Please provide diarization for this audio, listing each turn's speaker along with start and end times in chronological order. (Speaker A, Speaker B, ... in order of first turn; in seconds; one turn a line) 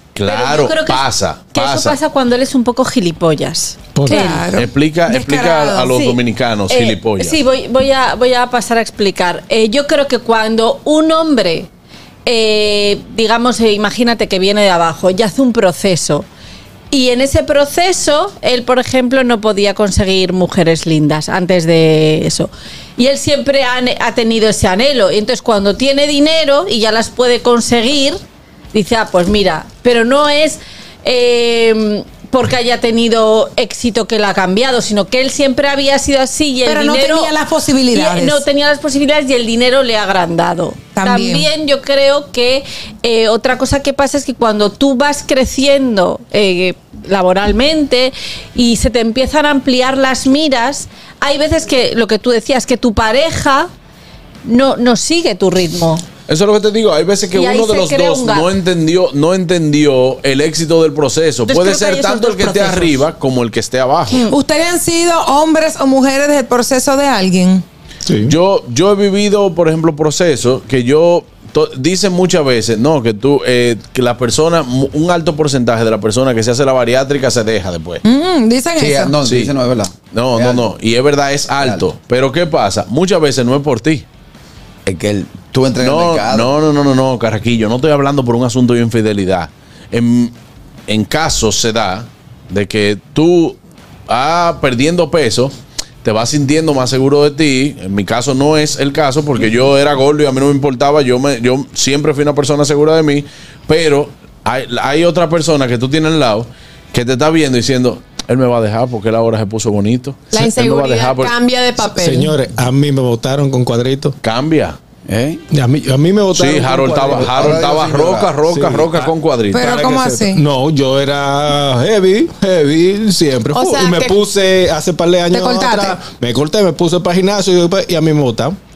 Speaker A: 0.1-2.0
Speaker B: 0.2-4.4
Speaker C: 4.0-4.3
Speaker D: 4.1-5.9
Speaker A: 4.5-7.4
Speaker B: 5.9-11.7
Speaker B: 12.3-16.3
Speaker B: 16.9-28.2
Speaker B: 28.7-37.4
Speaker D: 36.7-38.4
Speaker B: 37.9-53.7
Speaker D: 41.0-41.5
Speaker B: 54.5-56.0
Speaker A: 56.3-64.2
Speaker B: 57.3-58.5
Speaker B: 61.5-63.0
Speaker B: 64.1-64.4
Speaker D: 64.3-67.6
Speaker C: 68.1-68.3
Speaker A: 68.3-78.0
Speaker D: 78.0-79.1
Speaker E: 78.8-80.7
Speaker A: 79.2-79.5
Speaker A: 80.1-84.1
Speaker E: 81.6-81.8
Speaker E: 84.9-86.5
Speaker A: 85.8-90.3
Speaker A: 90.9-93.6
Speaker A: 94.1-95.5
Speaker A: 96.0-111.3
Speaker F: 110.3-112.4
Speaker C: 111.8-114.2
Speaker A: 114.2-114.8
Speaker E: 115.1-115.4
Speaker C: 115.5-117.6
Speaker A: 116.3-119.7
Speaker E: 117.2-118.3
Speaker C: 118.5-128.6
Speaker D: 119.5-120.4
Speaker F: 123.5-124.2
Speaker D: 125.3-126.0